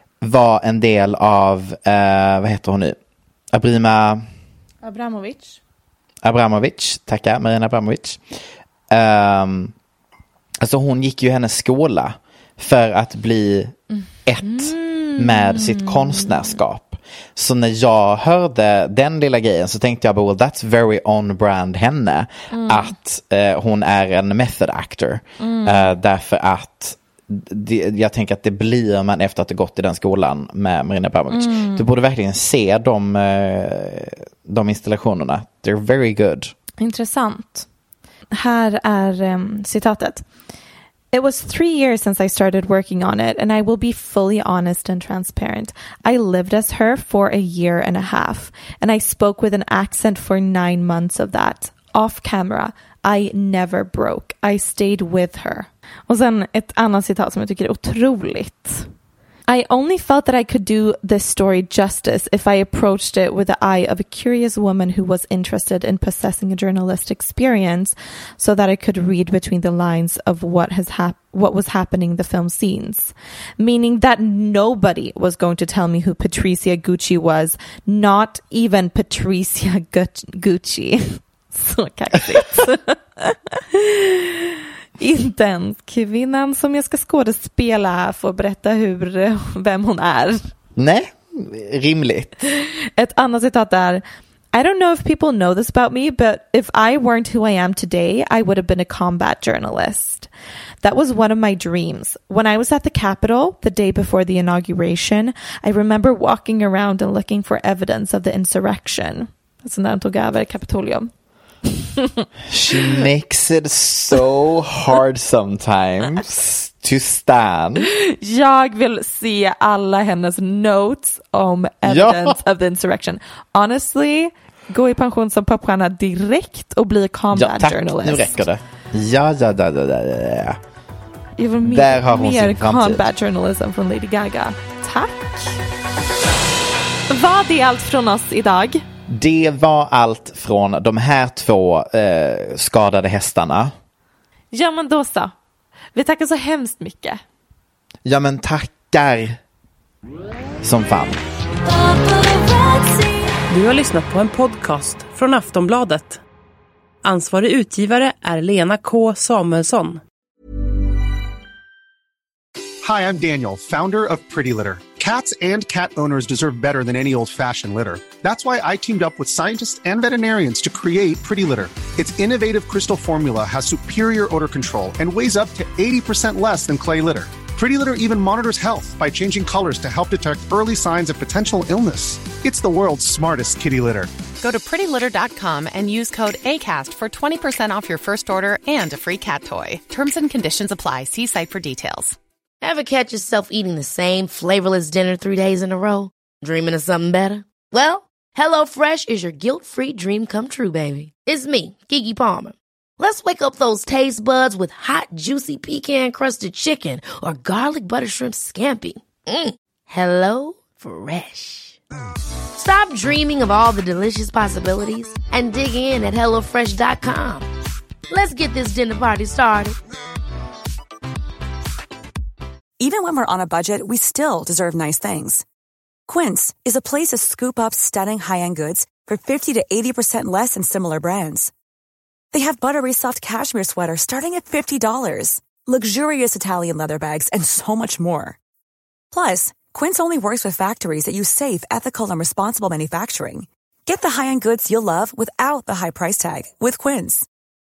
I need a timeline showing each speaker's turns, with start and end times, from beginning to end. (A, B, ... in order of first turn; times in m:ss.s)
0:00.2-0:03.0 A
0:03.5-0:04.2 A
0:04.8-0:05.6 B
0:06.2-0:08.2 A
0:08.9-0:09.7 A
0:10.6-0:36.5 A
0:14.4-0:16.6 B
0:22.5-0:22.9 B
0:25.4-0:25.9 B
0:31.3-0:31.8 B
0:36.8-0:37.7 B
0:38.3-0:40.2 B
0:41.1-0:58.9 B
0:59.5-1:24.5 B
1:25.0-1:30.4 B
1:30.8-1:32.3 A
1:32.5-1:40.3 B
1:40.8-1:51.1 B
1:51.6-1:52.2 B
1:52.5-1:57.9 A
1:58.0-2:08.4 B
2:01.8-2:02.4 A
2:07.3-2:10.6 A
2:11.4-2:15.6 B
2:11.6-2:13.1 A
2:17.1-2:18.8 B
2:19.1-2:23.7 A
2:24.5-2:25.3 B
2:25.9-2:27.2 B
2:28.0-2:29.4 A
2:30.6-2:31.2 A
2:32.6-2:32.8 C
2:33.5-2:36.2 C
2:37.0-2:40.0 C
2:42.8-3:04.1 D
3:04.4-3:12.2 E
3:12.6-3:31.8 F
3:32.6-3:37.5 F
3:38.1-3:39.8 F
3:42.8-3:45.4 G
3:46.1-3:51.5 G
3:52.3-3:58.4 G
3:59.1-4:07.3 G